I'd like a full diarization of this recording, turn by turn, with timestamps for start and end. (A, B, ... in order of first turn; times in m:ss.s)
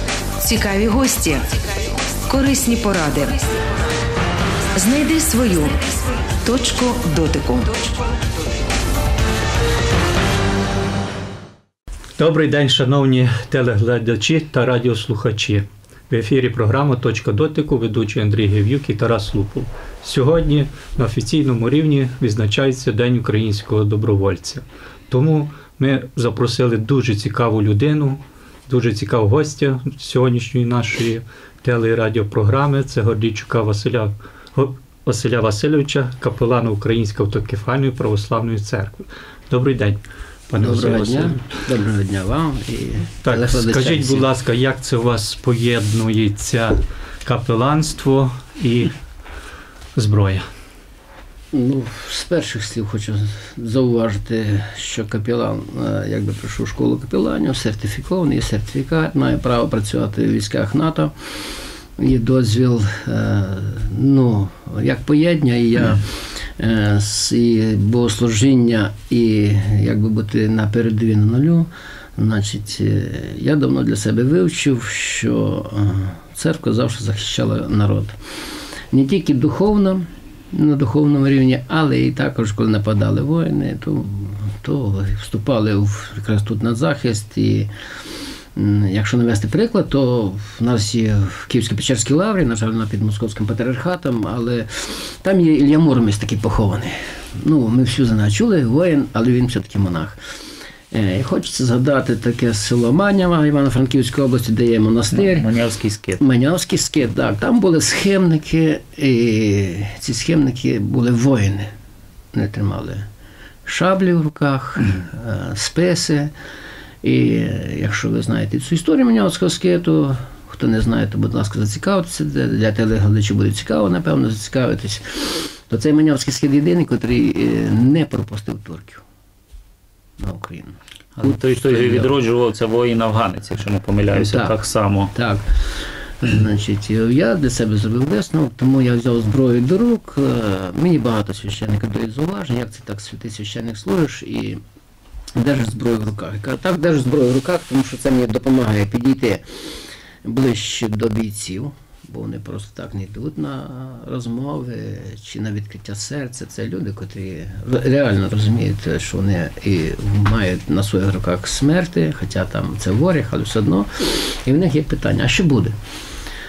0:00.4-0:03.6 A
0:04.7-0:08.4 A
0:12.2-0:41.4 B
0:40.6-0:44.2 C
0:43.2-0:48.9 B
0:49.9-0:50.5 B
0:51.5-1:01.1 C
1:02.0-1:06.1 C
1:06.6-1:18.2 C
1:18.9-1:27.7 C
1:28.5-1:40.2 C
1:40.9-1:45.5 C
1:45.1-1:46.2 D
1:46.2-1:51.7 C
1:52.3-1:53.0 C
1:53.6-1:56.3 C
1:57.0-2:09.0 C
2:10.2-2:12.1 C
2:11.2-2:15.1 D
2:14.1-2:14.6 C
2:15.1-2:15.6 C
2:16.2-2:24.6 C
2:25.4-2:29.4 C
2:30.2-2:45.7 C